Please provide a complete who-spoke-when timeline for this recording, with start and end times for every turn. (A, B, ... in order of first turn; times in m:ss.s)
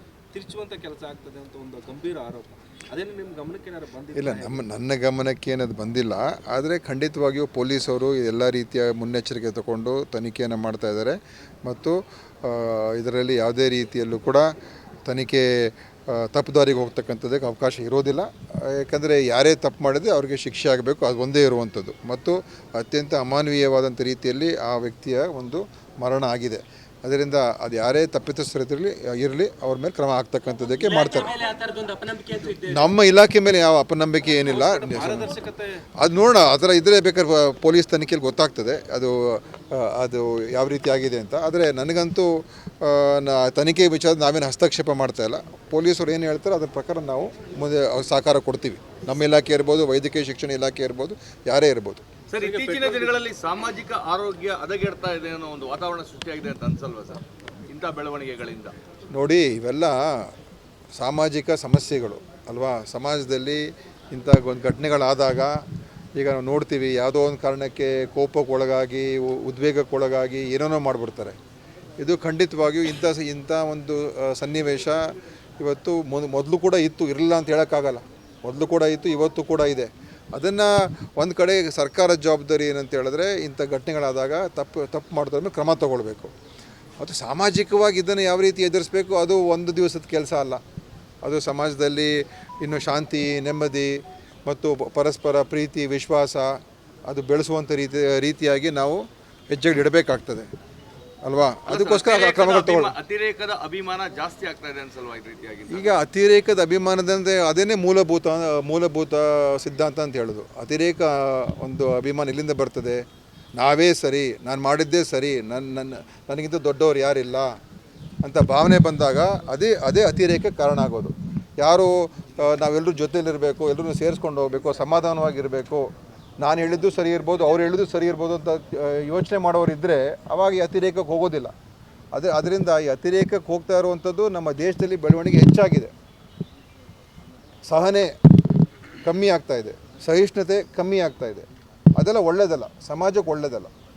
0:00.3-0:04.6 A
0:04.2-0:14.5 B
0:15.0-0:31.4 B
0:30.7-0:32.8 C
0:32.6-0:35.3 B
0:34.3-0:35.8 A
0:36.0-0:52.0 B
0:52.3-0:58.7 D
0:52.4-0:53.2 A
0:59.1-1:00.3 B
1:01.0-1:05.6 B
1:06.2-1:11.4 B
1:12.0-1:15.1 B
1:15.6-1:26.3 B
1:27.0-1:30.6 B
1:31.2-1:40.5 B
1:41.2-1:42.9 B
1:41.7-1:46.0 D
1:45.7-1:53.0 B
1:53.6-1:57.5 B
1:58.2-2:05.9 B
2:06.4-2:11.5 B
2:12.1-2:15.9 B
2:17.6-2:18.1 B
2:19.0-2:21.4 B
2:22.0-2:23.7 B